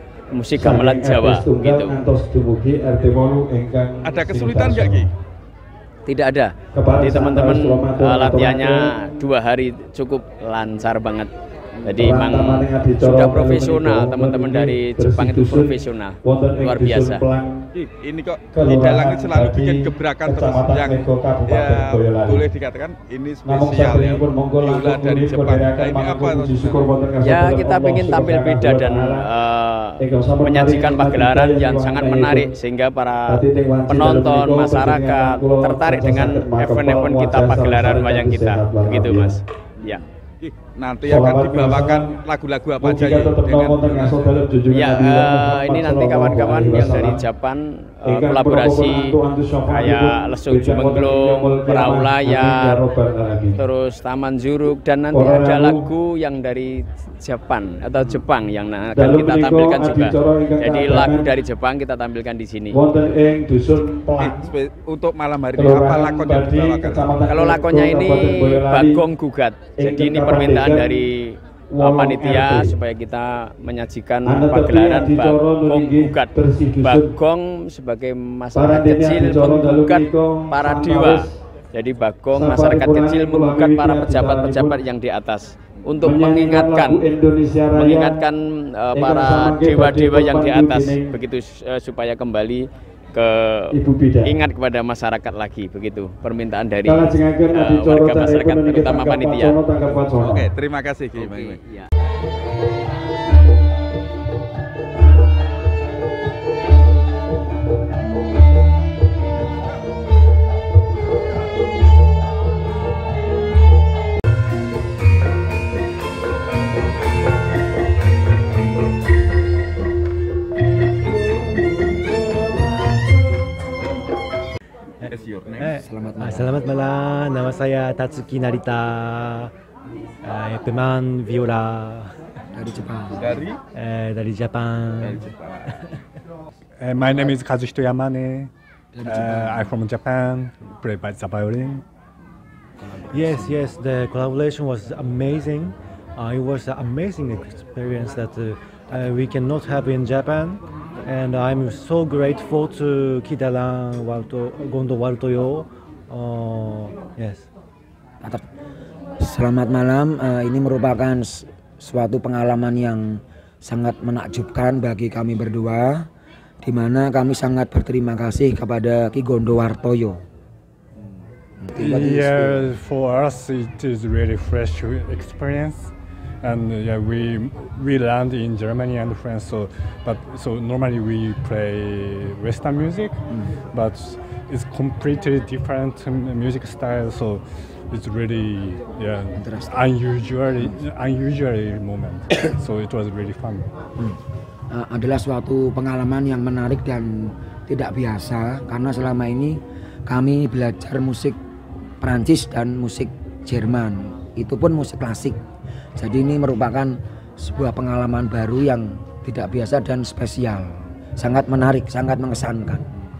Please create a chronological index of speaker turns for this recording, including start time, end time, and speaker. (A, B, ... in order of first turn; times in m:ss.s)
0:00.3-0:02.0 A
0:00.6-0:05.1 B
0:04.0-0:05.1 C
0:06.0-0:11.3 A
0:06.7-0:09.1 B
0:11.8-0:17.2 A
0:12.0-0:17.7 B
0:17.7-0:27.1 C
0:18.5-0:22.4 B
0:23.4-0:29.3 B
0:27.2-0:40.0 A
0:30.0-0:32.5 B
0:33.3-0:39.4 B
0:39.8-0:44.4 C
0:41.0-0:42.2 B
0:42.8-0:47.2 B
0:44.7-0:49.0 A
0:48.0-0:53.6 B
0:49.7-0:52.8 A
0:53.6-1:02.8 A
0:55.1-0:55.9 B
0:58.9-1:01.3 B
1:02.7-1:04.5 B
1:04.2-1:07.1 C
1:05.6-1:09.0 B
1:07.2-1:27.0 A
1:09.8-1:11.1 B
1:11.7-1:12.8 B
1:14.2-1:17.1 B
1:18.6-1:21.4 B
1:22.3-1:24.8 B
1:26.0-1:28.2 B
1:27.7-1:39.6 A
1:28.9-1:31.2 B
1:33.7-1:34.3 B
1:36.8-1:40.5 B
1:40.0-1:41.6 C
1:41.2-1:41.9 A
2:05.0-2:09.5 D
2:05.1-2:05.7 C
2:05.7-2:06.6 E
2:10.2-2:12.1 D
2:12.5-2:13.4 E
2:13.2-2:13.6 C
2:13.7-2:16.0 D
2:15.0-2:15.6 C
2:16.8-2:18.5 F
2:18.9-2:19.8 E
2:19.0-2:21.8 F
2:23.0-2:23.7 E
2:23.1-2:37.5 D
2:39.2-2:46.1 E
2:46.6-2:50.2 E
2:51.6-2:52.7 E
2:51.8-3:13.7 F
3:09.3-3:09.8 E
3:10.6-3:10.8 E
3:14.7-3:21.4 E
3:22.0-3:25.4 E
3:26.0-3:32.8 E